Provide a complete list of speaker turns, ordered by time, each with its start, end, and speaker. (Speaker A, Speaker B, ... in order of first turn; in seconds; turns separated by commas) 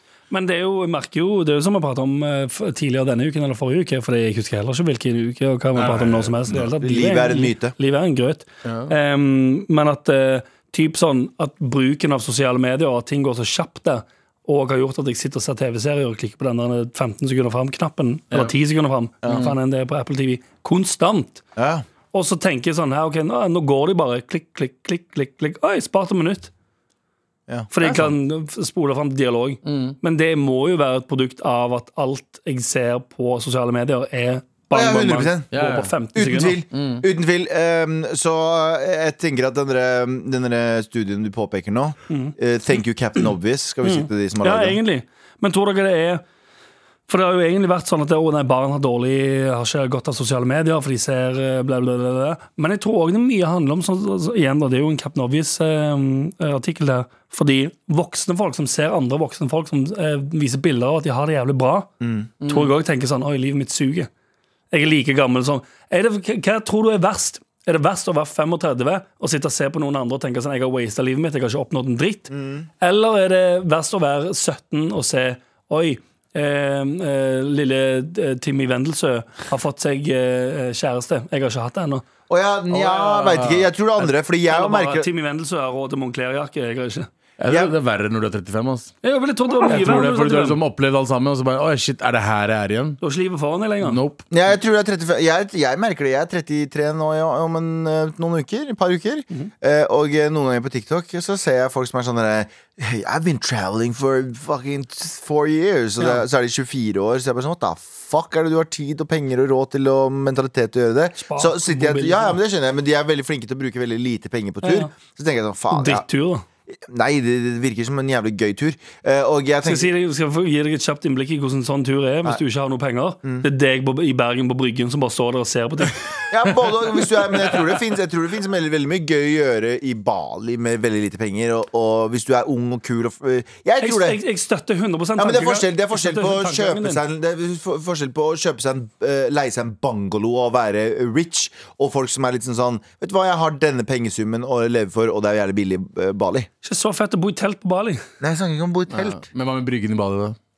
Speaker A: 0.3-21.4, Speaker B: 5.8-6.6, Speaker C: 6.6-7.8, Speaker B: 8.7-8.9, Speaker C: 19.2-19.5, Speaker B: 19.3-19.5, Speaker C: 21.6-21.9, Speaker A: 22.1-26.5, Speaker C: 27.5-27.7, Speaker A: 27.7-36.6, Speaker B: 29.6-30.0, Speaker C: 34.7-35.5, Speaker B: 35.5-35.9, Speaker C: 36.1-44.8, Speaker B: 36.7-37.1, Speaker A: 42.1-42.4, Speaker A: 43.8-46.2, Speaker A: 47.1-64.1, Speaker C: 62.0-62.3, Speaker B: 62.4-62.7, Speaker A: 64.7-82.0, Speaker C: 72.3-72.7, Speaker C: 82.3-85.1, Speaker A: 82.8-83.5, Speaker B: 83.2-83.7, Speaker A: 84.0-87.1, Speaker B: 87.4-89.0, Speaker A: 89.0-90.6, Speaker B: 89.6-93.0, Speaker A: 93.0-94.0, Speaker B: 93.8-94.3, Speaker C: 94.3-116.0, Speaker A: 111.2-112.4, Speaker A: 114.6-114.9, Speaker A: 115.7-116.5, Speaker C: 116.8-119.9, Speaker A: 119.6-126.0, Speaker C: 126.3-134.2, Speaker A: 133.8-137.0, Speaker C: 135.2-146.5, Speaker A: 146.6-148.0, Speaker C: 148.2-149.2, Speaker B: 148.9-150.4